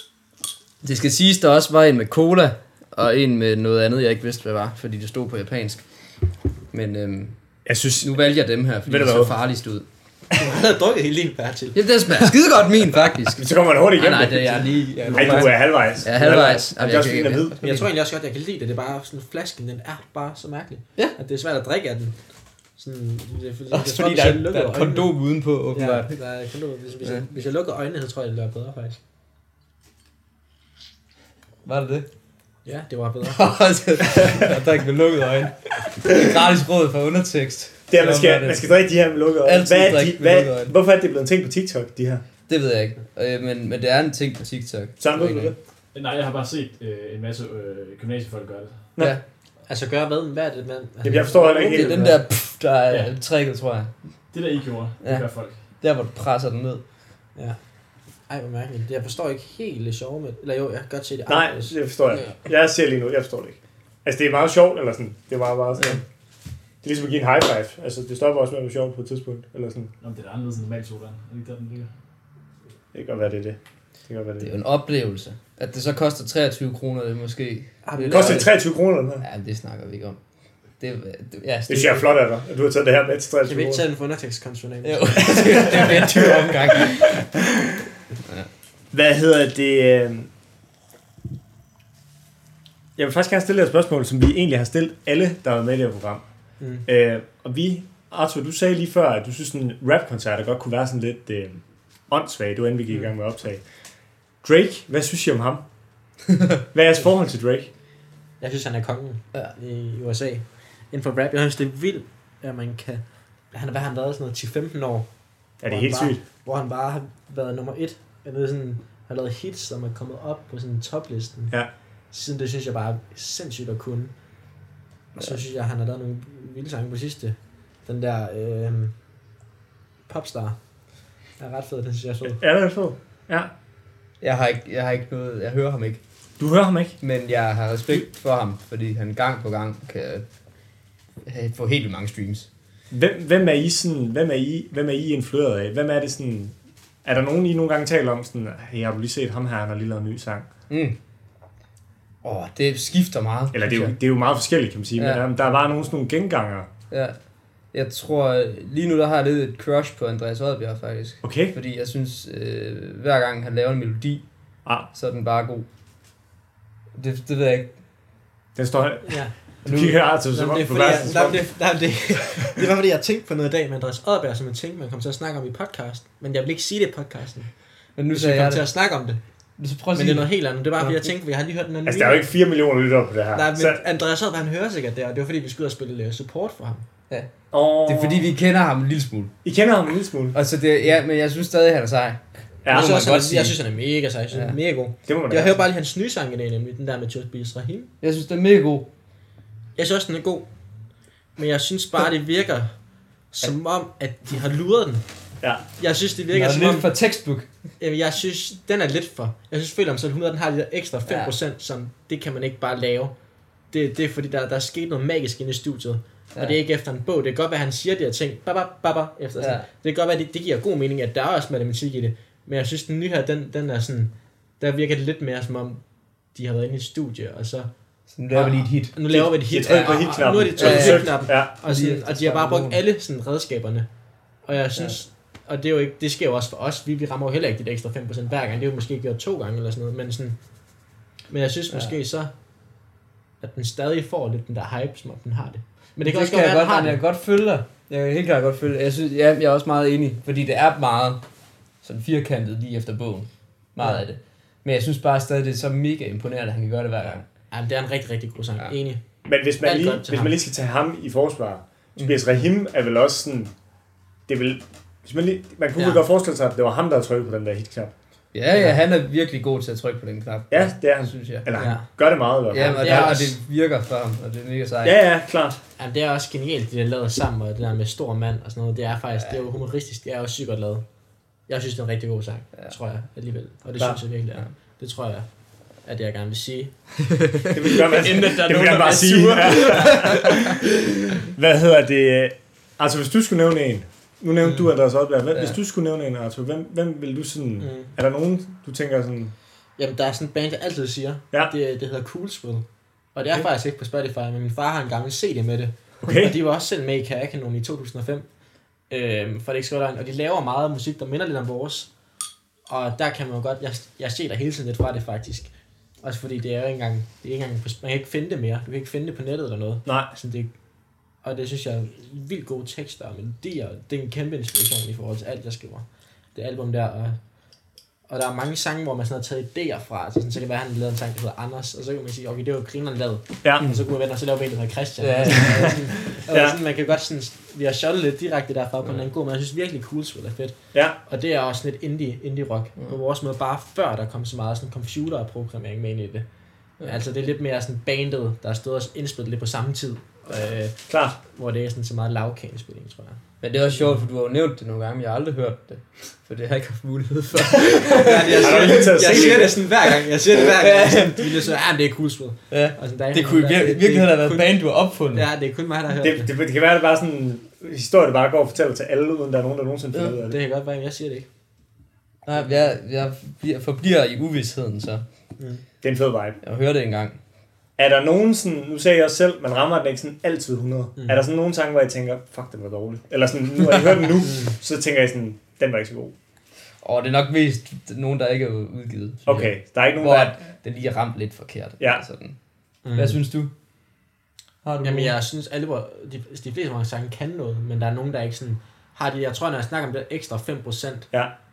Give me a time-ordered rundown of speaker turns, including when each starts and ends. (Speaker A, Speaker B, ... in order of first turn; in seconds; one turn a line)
Speaker A: 0.8-5.8
Speaker A: 6.7-7.3
Speaker B: 7.7-8.1
Speaker A: 8.0-9.8
Speaker B: 8.8-9.4
Speaker C: 10.4-12.3
Speaker A: 11.8-13.4
Speaker B: 13.3-17.8
Speaker A: 13.9-17.9
Speaker C: 15.0-15.4
Speaker C: 17.6-22.1
Speaker C: 22.8-25.1
Speaker A: 23.7-26.1
Speaker C: 25.7-29.0
Speaker A: 31.6-32.0
Speaker C: 32.6-33.4
Speaker A: 33.3-38.7
Speaker B: 37.9-42.2
Speaker A: 39.4-40.7
Speaker A: 42.5-45.5
Speaker B: 45.0-45.5
Speaker D: 45.9-48.9
Speaker C: 49.7-51.9
Speaker B: 51.0-52.2
Speaker A: 51.4-53.9
Speaker D: 54.3-55.6
Speaker A: 55.0-56.8
Speaker C: 58.3-61.8
Speaker B: 61.3-66.0
Speaker B: 66.8-69.9
Speaker D: 70.0-71.9
Speaker B: 72.9-74.5
Speaker A: 74.4-78.5
Speaker C: 77.8-78.5
Speaker B: 78.1-79.2
Speaker A: 79.2-80.2
Speaker A: 80.8-82.0
Speaker B: 81.7-83.8
Speaker C: 83.4-86.3
Speaker A: 84.8-87.2
Speaker B: 85.6-87.8
Speaker B: 88.9-90.3
Speaker B: 93.0-96.2
Speaker C: 96.6-96.8
Speaker B: 96.9-103.6
Speaker B: 104.4-105.6
Speaker B: 106.7-107.7
Speaker C: 108.4-115.1
Speaker B: 115.6-116.2
Speaker C: 115.7-121.5
Speaker C: 122.1-124.1
Speaker C: 125.2-128.9
Speaker C: 130.1-130.6
Speaker C: 131.4-132.4
Speaker B: 132.2-133.5
Speaker A: 134.2-136.0
Speaker B: 136.4-137.0
Speaker A: 137.0-140.2
Speaker A: 141.2-142.5
Speaker B: 142.9-150.5
Speaker A: 150.7-150.9
Speaker A: 152.2-153.9
Speaker B: 153.5-156.7
Speaker A: 155.0-155.2
Speaker A: 156.9-157.2
Speaker A: 157.7-164.2
Speaker B: 161.2-161.5
Speaker A: 164.9-165.7
Speaker A: 166.9-167.7
Speaker B: 168.6-171.4
Speaker C: 169.0-169.3
Speaker A: 169.6-170.1
Speaker C: 170.3-177.5
Speaker A: 170.8-171.3
Speaker A: 178.0-178.6
Speaker C: 178.1-179.2
Speaker A: 179.6-181.0
Speaker C: 179.9-182.3
Speaker B: 181.9-183.8
Speaker C: 183.3-186.9
Speaker B: 187.5-188.3
Speaker A: 187.8-189.3
Speaker B: 189.4-190.4
Speaker A: 190.3-193.6
Speaker B: 192.6-193.0
Speaker C: 192.7-197.9
Speaker B: 195.1-195.6
Speaker A: 198.0-198.9
Speaker C: 199.8-200.5
Speaker C: 201.4-202.7
Speaker C: 203.3-205.0
Speaker C: 205.8-206.9
Speaker A: 206.3-207.5
Speaker C: 207.8-213.1
Speaker A: 211.1-211.3
Speaker C: 213.7-225.8
Speaker A: 219.4-219.7
Speaker C: 226.3-227.7
Speaker A: 228.1-228.9
Speaker C: 228.3-233.9
Speaker B: 229.1-231.5
Speaker A: 229.6-230.0
Speaker A: 230.6-232.8
Speaker C: 234.4-240.4
Speaker C: 241.3-242.3
Speaker C: 243.4-247.0
Speaker A: 246.0-251.2
Speaker A: 251.8-257.2
Speaker C: 257.5-259.0
Speaker B: 259.2-263.5
Speaker C: 259.6-260.3
Speaker B: 264.3-267.9
Speaker C: 265.8-266.0
Speaker A: 268.3-271.5
Speaker C: 268.5-268.8
Speaker B: 270.5-273.2
Speaker C: 271.5-271.9
Speaker C: 272.5-273.4
Speaker A: 272.5-275.0
Speaker B: 274.8-275.6
Speaker C: 275.8-280.8
Speaker C: 281.5-285.3
Speaker C: 285.8-286.7
Speaker A: 287.1-290.6
Speaker B: 287.5-290.7
Speaker B: 291.2-299.3
Speaker C: 297.6-297.9
Speaker C: 299.8-308.2
Speaker B: 306.0-306.4
Speaker C: 308.9-311.9
Speaker C: 312.7-315.5
Speaker C: 316.0-320.5
Speaker B: 319.9-320.1
Speaker C: 321.2-327.2
Speaker C: 328.1-346.2
Speaker A: 335.0-336.0
Speaker B: 336.3-336.6
Speaker C: 346.8-353.2
Speaker B: 350.9-351.2
Speaker A: 353.4-361.4
Speaker C: 357.8-364.6
Speaker B: 358.3-359.5
Speaker A: 362.5-365.3
Speaker C: 365.1-366.3
Speaker B: 366.0-370.4
Speaker C: 369.9-371.3
Speaker A: 372.2-375.0
Speaker B: 375.8-376.4
Speaker A: 376.4-377.2
Speaker B: 377.8-386.1
Speaker A: 386.8-392.4
Speaker B: 389.2-390.4
Speaker C: 392.8-393.2
Speaker A: 393.0-393.5
Speaker A: 394.6-395.1
Speaker C: 394.8-401.1